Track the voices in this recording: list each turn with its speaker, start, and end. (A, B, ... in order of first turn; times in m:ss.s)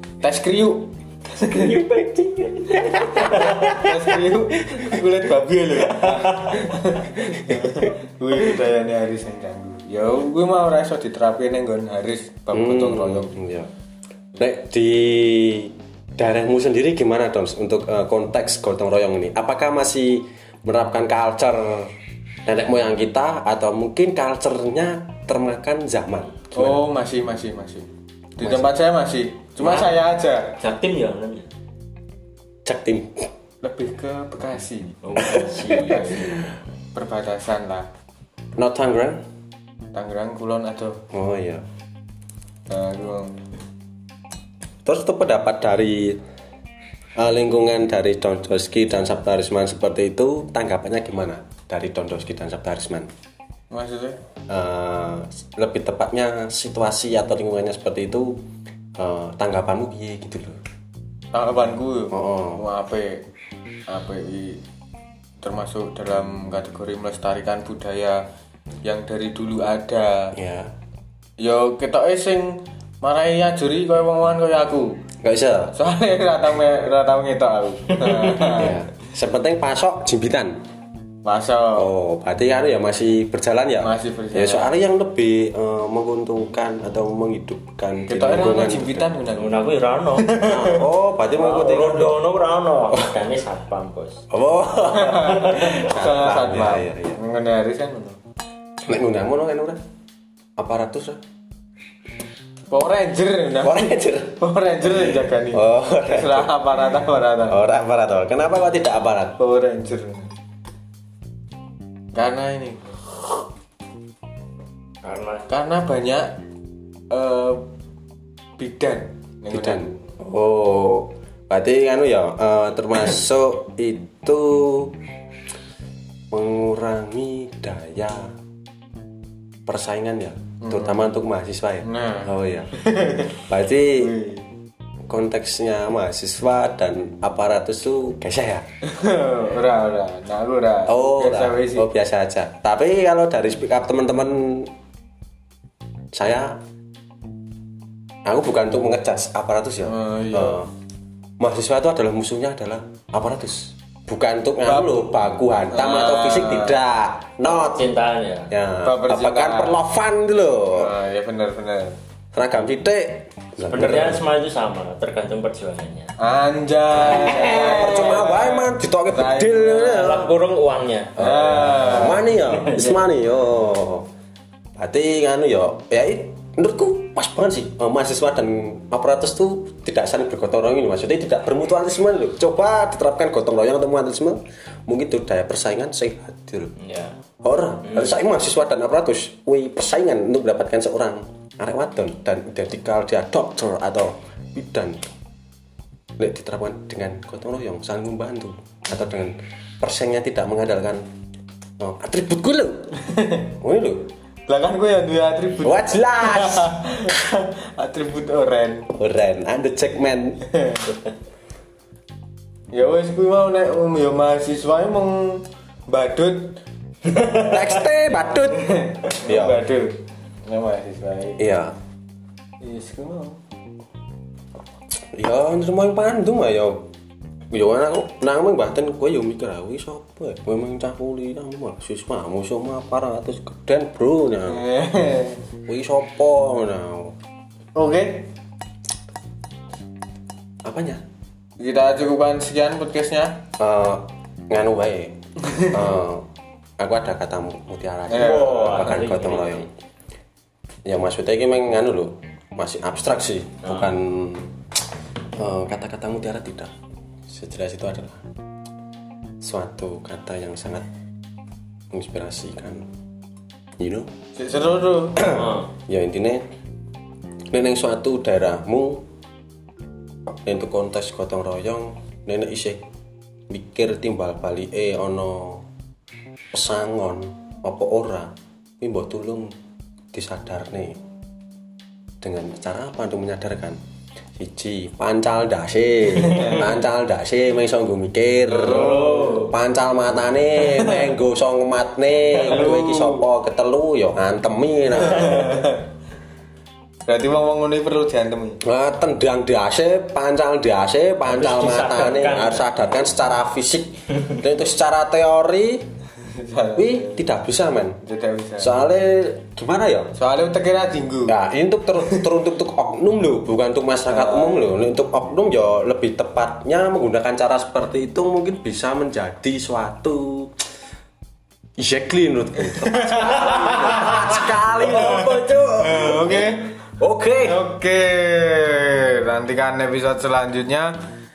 0:00.2-0:01.8 A
0:01.5-0:03.9 B
0:02.8-0:03.9 C
0:03.3-0:13.3 A
0:05.9-0:06.7 B
0:12.5-0:13.7 C
0:14.3-0:21.9 C
0:22.4-0:26.8 C
0:26.5-0:30.6 A
0:28.4-0:28.8 C
0:29.6-0:29.9 B
0:30.6-0:31.5 B
0:32.6-0:33.3 C
0:33.6-0:35.0 A
0:35.0-0:36.6 B
0:35.2-0:36.2 C
0:35.9-0:36.2 A
0:36.9-0:37.9 A
0:38.6-0:39.2 C
0:39.9-0:41.0 A
0:41.1-0:41.6 C
0:42.7-0:43.5 A
0:44.8-0:46.2 C
0:47.2-0:53.1 C
0:53.7-0:54.2 A
0:54.5-0:58.4 C
0:59.0-1:00.6 C
1:01.3-1:03.2 A
1:02.1-1:02.6 C
1:03.9-1:04.6 A
1:05.4-1:08.2 A
1:08.8-1:10.3 A
1:10.3-1:10.7 C
1:11.4-1:15.0 A
1:15.2-1:15.7 C
1:15.8-1:18.8 A
1:18.2-1:18.6 B
1:18.5-1:20.6 C
1:21.2-1:21.9 A
1:21.7-1:29.1 C
1:23.8-1:24.7 A
1:28.1-1:30.8 A
1:29.3-1:30.5 B
1:30.4-1:32.2 C
1:31.3-1:34.2 B
1:32.9-1:33.1 C
1:34.3-1:37.2 C
1:34.9-1:38.2 A
1:38.8-1:39.8 C
1:40.6-1:41.2 C
1:42.7-1:47.6 A
1:43.6-1:44.4 C
1:45.5-1:46.8 C
1:47.5-1:49.4 C
1:49.4-1:50.3 A
1:52.1-1:53.0 A
1:55.0-1:55.5 B
1:55.5-1:56.4 A
1:57.1-1:57.6 A
1:58.6-2:00.0 A
1:59.5-2:04.9 C
2:06.3-2:08.3 C
2:09.6-2:12.7 C
2:10.6-2:11.0 A
2:11.8-2:13.4 A
2:13.5-2:14.1 C
2:13.9-2:14.4 A
2:15.1-2:18.7 C
2:18.8-2:21.9 A
2:20.9-2:24.7 C
2:26.1-2:26.6 C
2:28.2-2:30.7 C
2:29.8-2:30.6 A
2:31.4-2:37.8 C
2:34.6-2:34.9 A
2:35.7-2:36.8 A
2:37.4-2:38.5 B
2:38.5-2:40.9 C
2:38.8-2:39.8 A
2:40.8-2:42.0 A
2:42.3-2:44.2 C
2:43.6-2:46.1 B
2:46.2-2:50.2 A
2:47.0-2:50.3 C
2:49.9-2:51.2 B
2:51.2-2:52.2 A
2:51.2-2:54.1 C
2:52.1-2:53.0 B
2:54.8-3:06.8 C
3:06.8-3:07.2 B
3:07.4-3:15.0 C
3:16.2-3:21.0 C
3:21.8-3:23.0 C
3:23.0-3:23.5 A
3:23.6-3:24.1 C
3:24.5-3:28.9 A
3:25.6-3:26.8 C
3:28.9-3:30.4 C
3:30.5-3:30.9 A
3:32.7-3:36.6 A
3:37.3-3:39.6 C
3:38.5-3:41.4 A
3:41.4-3:41.8 C
3:42.6-3:43.4 A
3:45.1-3:46.9 C
3:47.5-3:54.6 C
3:54.5-3:55.4 A
3:55.6-3:57.2 C
3:57.7-3:58.3 A
4:00.6-4:01.0 C
4:01.6-4:03.4 A
4:03.6-4:06.3 C
4:05.5-4:05.7 A
4:06.8-4:09.7 C
4:08.1-4:08.9 A
4:08.1-4:09.7 B
4:10.8-4:14.5 C
4:13.6-4:13.9 B
4:15.4-4:16.7 C
4:17.3-4:18.3 C
4:19.4-4:20.8 C
4:21.9-4:22.9 C
4:23.8-4:24.1 C
4:24.4-4:25.3 A
4:25.2-4:26.4 C
4:25.3-4:25.7 B
4:27.5-4:29.0 C
4:30.3-4:32.8 C
4:33.5-4:35.6 C
4:36.5-4:39.5 C
4:40.1-4:41.0 C
4:42.2-4:43.8 C
4:44.4-4:55.6 C
4:46.3-4:46.6 A
4:48.5-4:49.5 B
4:48.6-4:49.3 A
4:50.7-4:51.0 A
4:52.3-4:53.2 A
4:55.0-4:55.8 A
4:57.0-4:58.6 A
4:58.6-5:05.9 C
5:01.2-5:02.7 B
5:06.3-5:07.2 A
5:06.8-5:08.0 C
5:08.0-5:08.8 A
5:08.6-5:10.1 C
5:10.2-5:11.3 A
5:11.3-5:20.5 C
5:14.1-5:14.7 A
5:21.8-5:26.4 C
5:22.6-5:24.2 A
5:23.5-5:26.2 B
5:24.8-5:26.7 A
5:27.0-5:27.6 C
5:27.4-5:31.0 A